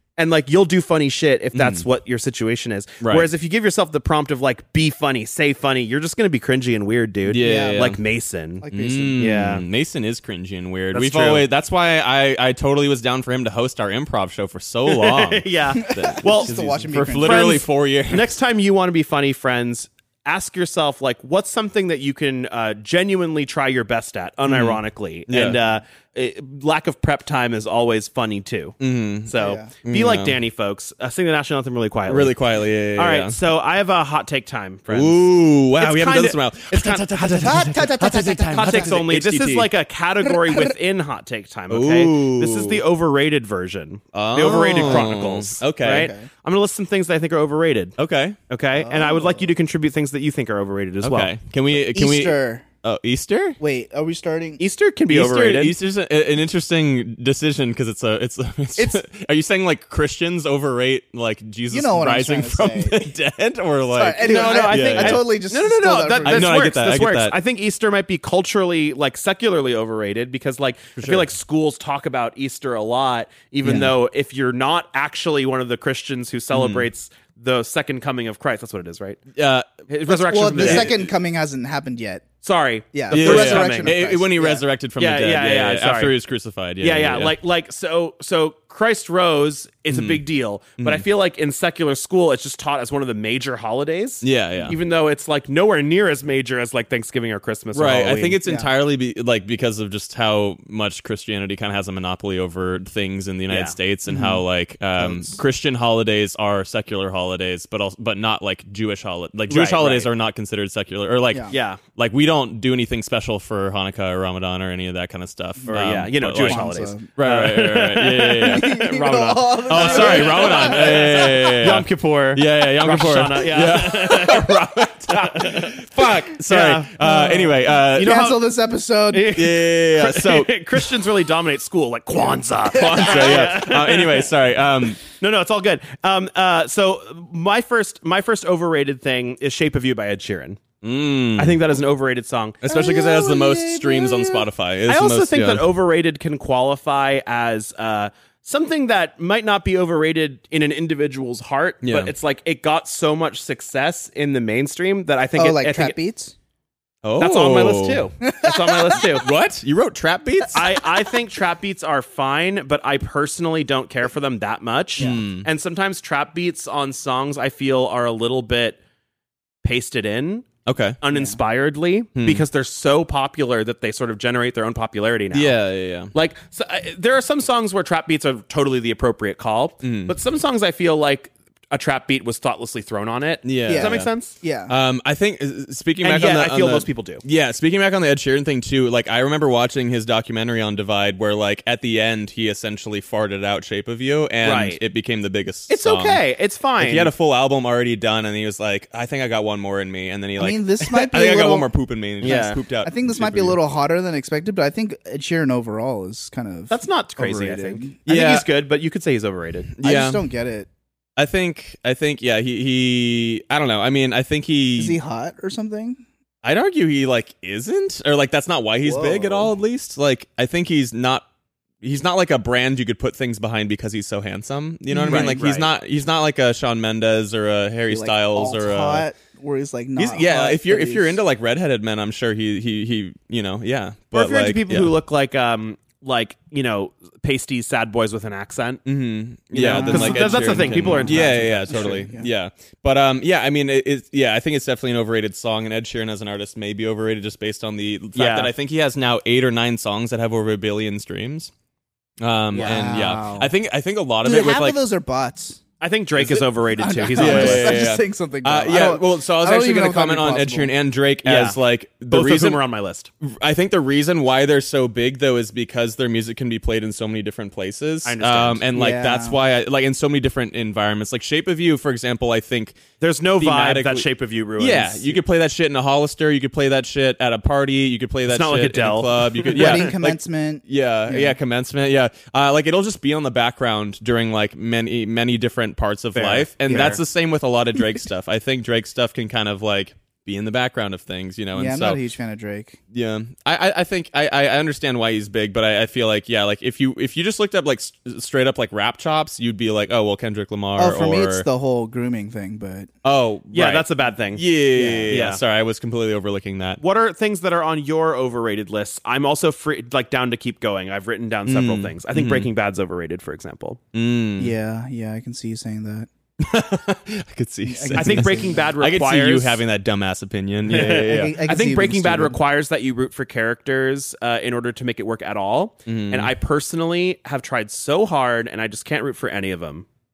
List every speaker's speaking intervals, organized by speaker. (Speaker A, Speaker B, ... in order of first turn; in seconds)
Speaker A: 0.2-9.6, 10.9-11.5, 14.9-16.6, 17.2-32.4, 33.0-37.5, 38.4-48.0, 48.5-51.3, 54.6-55.8, 64.2-79.2, 79.9-81.0, 82.4-84.0, 85.0-86.1, 86.8-98.4, 103.5-103.8, 109.5-110.1, 111.5-111.8, 115.7-126.9, 127.9-128.5, 129.1-134.3, 135.1-140.6, 141.4-156.0, 157.2-159.3, 160.5-168.8, 169.6-170.5, 171.0-175.6, 176.1-184.4, 186.0-187.2, 194.4-194.8, 195.7-197.1, 202.2-202.6, 206.7-209.7, 225.1-225.7, 234.1-238.8, 239.5-242.1, 248.2-248.5, 252.5-252.8, 255.8-257.9, 261.2-263.1, 268.1-268.7, 273.0-275.2, 278.3-279.9, 286.1-287.0, 303.5-304.5, 305.1-305.4, 306.8-313.8, 318.0-319.6, 320.7-329.9
Speaker B: 1.5-1.9, 3.0-3.3, 7.3-8.0, 8.7-18.3, 24.4-25.6, 28.8-30.4, 32.1-33.4, 34.9-39.7, 41.7-42.8, 44.1-46.1, 48.0-48.4, 51.0-53.6, 55.1-65.2, 66.2-67.4, 71.0-71.3, 73.7-73.9, 76.5-76.9, 79.4-79.8, 80.4-80.9, 83.1-87.4, 89.9-90.2, 90.8-91.1, 94.2-94.8, 97.7-118.8, 119.7-128.3, 129.3-130.8, 132.7-135.0, 140.8-141.6, 142.6-145.7, 151.8-152.1, 157.0-158.1, 159.2-160.8, 165.0-165.5, 170.7-171.0, 172.2-172.4, 175.3-176.1, 179.8-180.2, 183.4-184.1, 184.7-196.2, 196.8-203.6, 208.1-208.5, 209.7-210.2, 211.2-215.0, 216.4-221.2, 221.8-229.1, 230.0-234.9, 238.9-251.5, 252.2-254.8, 257.1-262.6, 263.2-272.8, 273.4-274.1, 274.6-292.0, 292.9-301.5, 303.0-306.8, 311.5-312.5, 313.9-314.6, 316.4-321.3, 325.9-326.3
Speaker C: 7.4-7.9, 8.6-9.3, 15.8-17.6, 29.4-29.7, 37.2-39.0, 40.3-40.7, 45.9-46.3, 48.8-49.5, 51.7-52.6, 53.6-54.6, 61.7-63.1, 64.0-66.5, 73.7-73.9, 80.1-82.2, 82.9-84.6, 98.5-98.7, 104.1-104.4, 105.0-105.4, 116.4-117.1, 118.5-121.6, 127.0-129.3, 132.2-132.4, 142.8-143.8, 155.4-156.3, 158.3-159.0, 183.7-184.7, 200.4-201.7, 202.2-208.0, 209.8-210.7, 214.8-216.0, 218.8-219.5, 224.9-225.4, 227.9-231.2, 239.7-242.3, 252.6-253.5, 254.2-255.6, 256.2-260.7, 268.7-269.4, 279.5-281.4, 286.7-287.0, 291.6-292.8, 300.8-302.9, 304.8-305.1, 314.4-316.1, 317.6-318.7, 320.7-322.4